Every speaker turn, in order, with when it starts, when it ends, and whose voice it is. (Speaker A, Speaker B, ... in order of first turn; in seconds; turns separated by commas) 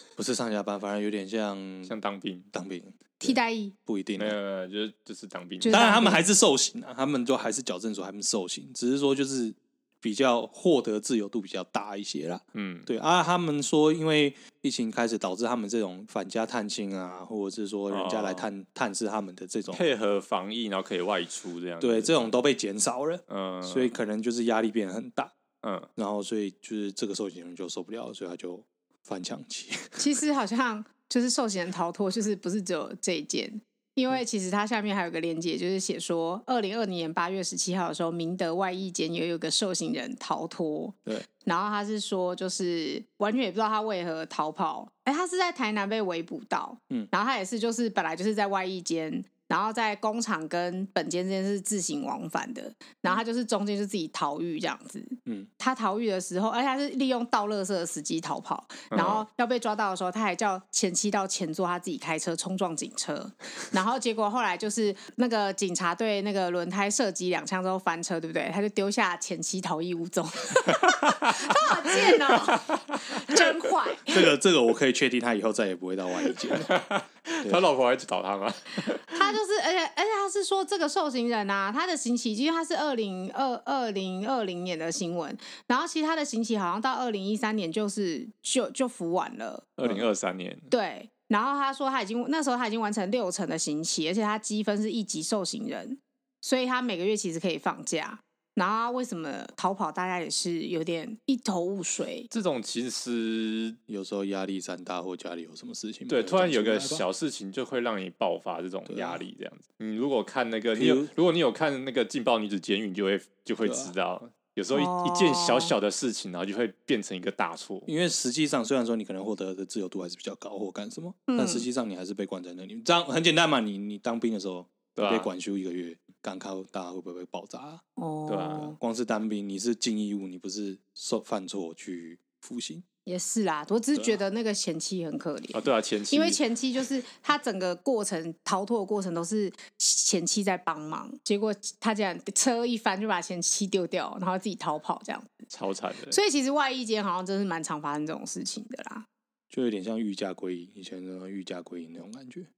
Speaker A: 0.2-1.9, Speaker B: 1.9-2.5, Speaker A: 2.5-3.4, Speaker C: 3.2-3.7, Speaker A: 3.9-4.4, Speaker B: 4.2-5.8, Speaker C: 5.6-6.3, Speaker A: 5.7-19.8, Speaker B: 12.6-12.9, Speaker B: 17.9-18.5, Speaker B: 19.7-22.3, Speaker A: 21.8-25.3, Speaker B: 23.3-23.9, Speaker B: 25.6-25.9, Speaker A: 26.0-30.0, Speaker C: 30.0-74.2, Speaker B: 58.9-59.2, Speaker B: 72.2-73.3, Speaker A: 74.1-76.7, Speaker B: 76.5-79.2, Speaker C: 79.1-89.8, Speaker B: 89.8-90.7, Speaker C: 90.7-102.3, Speaker B: 102.3-103.8, Speaker A: 103.9-107.0, Speaker B: 106.1-117.9, Speaker A: 108.9-109.2, Speaker A: 110.8-111.1, Speaker A: 113.6-113.9, Speaker C: 114.7-115.7, Speaker A: 117.9-127.8, Speaker C: 121.3-121.7, Speaker B: 125.0-125.3, Speaker C: 128.0-128.8, Speaker B: 128.3-128.8, Speaker A: 128.8-132.8, Speaker C: 133.1-145.4, Speaker B: 135.5-136.4, Speaker B: 145.5-146.2, Speaker C: 146.1-149.1, Speaker A: 149.5-152.5